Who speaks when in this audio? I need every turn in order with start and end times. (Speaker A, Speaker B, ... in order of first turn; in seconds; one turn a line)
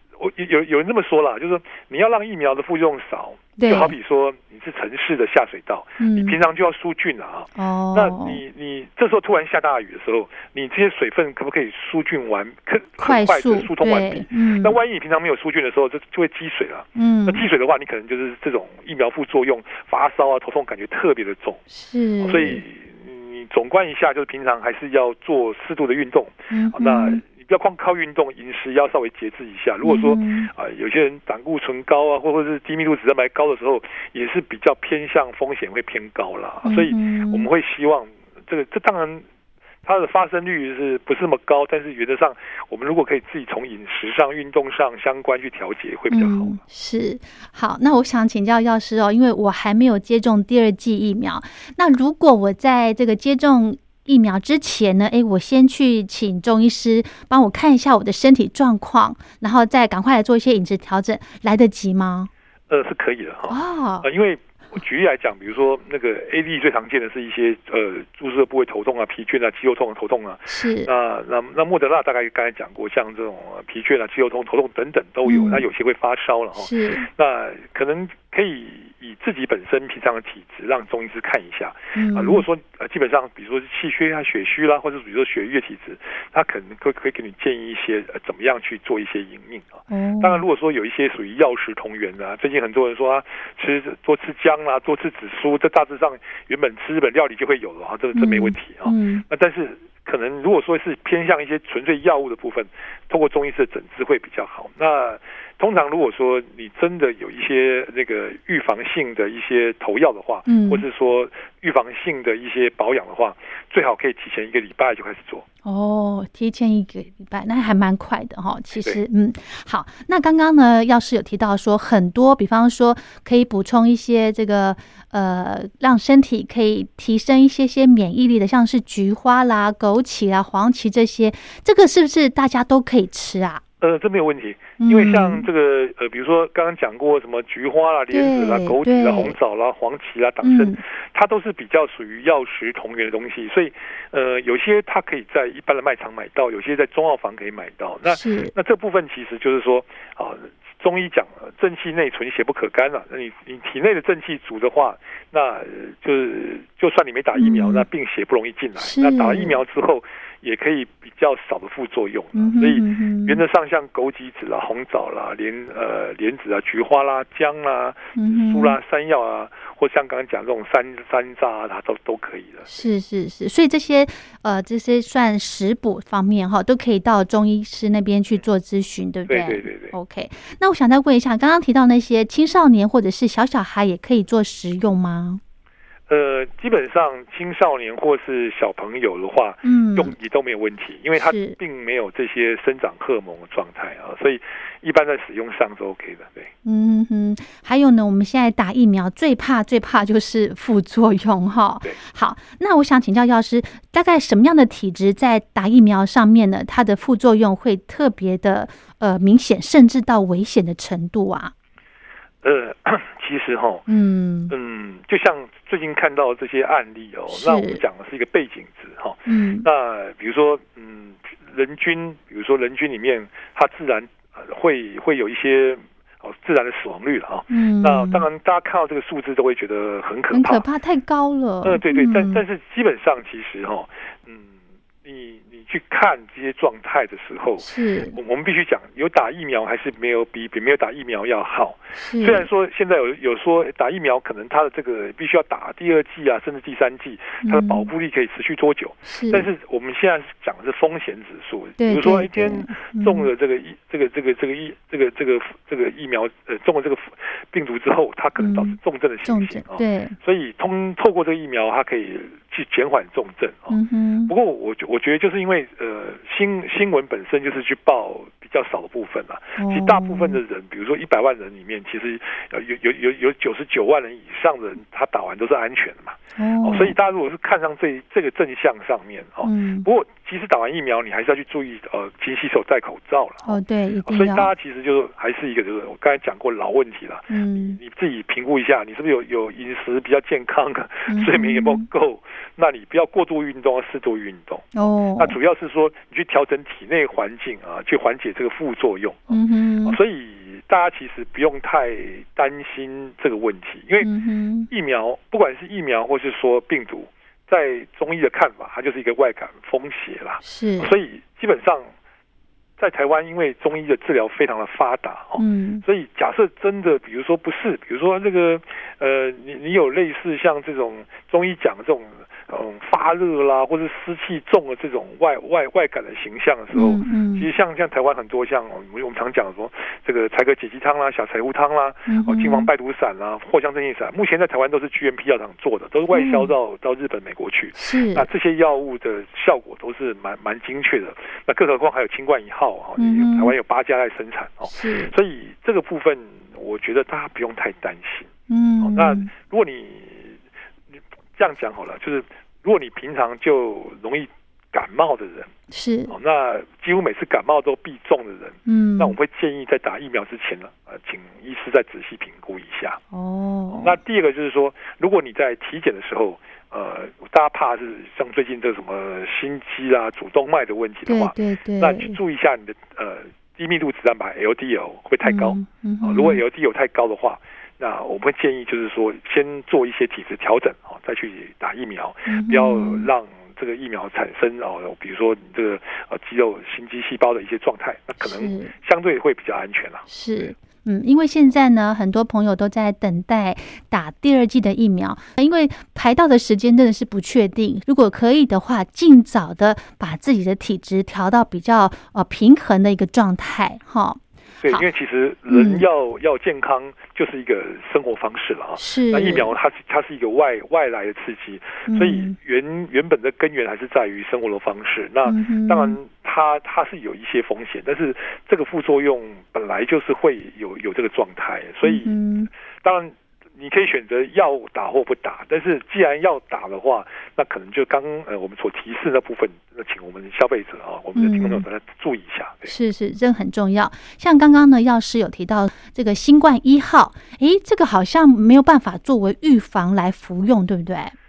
Speaker A: 0.2-21.6
Speaker B: 3.6-3.9
Speaker B: 6.0-6.4
Speaker B: 7.5-8.4
Speaker B: 13.0-14.8
Speaker B: 16.9-17.4
Speaker B: 21.7-22.6
Speaker A: 22.2-39.2
Speaker B: 26.5-27.2
Speaker B: 29.8-30.5
Speaker B: 36.6-37.5
Speaker A: 39.8-46.6
Speaker B: 46.1-62.3
Speaker A: 62.7-115.5
Speaker B: 63.5-64.1
Speaker B: 70.5-70.9
Speaker B: 75.2-75.7
Speaker B: 76.5-77.1
Speaker B: 81.9-82.4
Speaker B: 89.9-90.4
Speaker B: 98.1-99.2
Speaker B: 110.5-110.8
Speaker B: 115.6-133.6
Speaker A: 118.8-119.0
Speaker A: 133.8-172.7
Speaker B: 134.8-135.5
Speaker B: 138.1-139.3
Speaker B: 140.4-140.8
Speaker B: 148.1-148.5
Speaker B: 157.3-157.9
Speaker B: 158.8-159.6
Speaker B: 162.3-163.4
Speaker B: 168.2-168.8
Speaker B: 172.7-185.4
Speaker A: 179.3-179.9
Speaker A: 186.1-196.5
Speaker B: 189.6-190.1
Speaker B: 191.2-191.6
Speaker B: 196.6-211.5
Speaker A: 212.4-213.8
Speaker B: 213.9-214.5
Speaker A: 214.5-230.7
Speaker B: 217.3-217.8
Speaker B: 219.2-219.7
Speaker B: 227.5-228.2
Speaker B: 230.3-232.4
Speaker A: 231.6-263.8
Speaker B: 237.6-238.2
Speaker B: 241.9-242.5
Speaker B: 247.4-247.9
Speaker B: 249.1-249.5
Speaker B: 251.8-253.3
Speaker B: 258.4-260.1
Speaker B: 263.7-264.3
Speaker A: 264.3-294.6
Speaker B: 269.6-270.4
Speaker B: 276.4-276.9
Speaker B: 279.4-279.9
Speaker B: 283.4-284.5
Speaker B: 287.3-287.8
Speaker B: 291.1-291.9
Speaker B: 294.7-295.4
Speaker A: 295.2-304.1
Speaker B: 299.3-300.0
Speaker B: 304.0-304.7
Speaker A: 304.7-311.9
Speaker B: 310.4-310.9
Speaker A: 312.8-350.4
Speaker B: 315.4-315.8
Speaker B: 326.7-327.5
Speaker B: 332.1-332.7
Speaker B: 336.1-336.5
Speaker B: 337.7-338.3
Speaker B: 343.0-343.5
Speaker B: 344.7-345.1
Speaker B: 348.5-349.3
Speaker A: 350.9-355.5
Speaker B: 355.7-356.1
Speaker A: 356.1-363.0
Speaker B: 358.6-359.1
Speaker B: 363.1-364.0
Speaker A: 363.7-390.1
Speaker B: 371.1-372.2
Speaker B: 375.2-376.4
Speaker B: 382.3-383.1
Speaker B: 388.2-388.7
Speaker B: 390.1-404.8
Speaker A: 404.6-422.2
Speaker B: 405.5-405.8
Speaker B: 408.8-409.5
Speaker B: 411.9-412.3
Speaker B: 415.2-416.0
Speaker B: 421.8-422.5
Speaker A: 422.8-432.7
Speaker B: 431.1-431.6
Speaker B: 432.7-441.1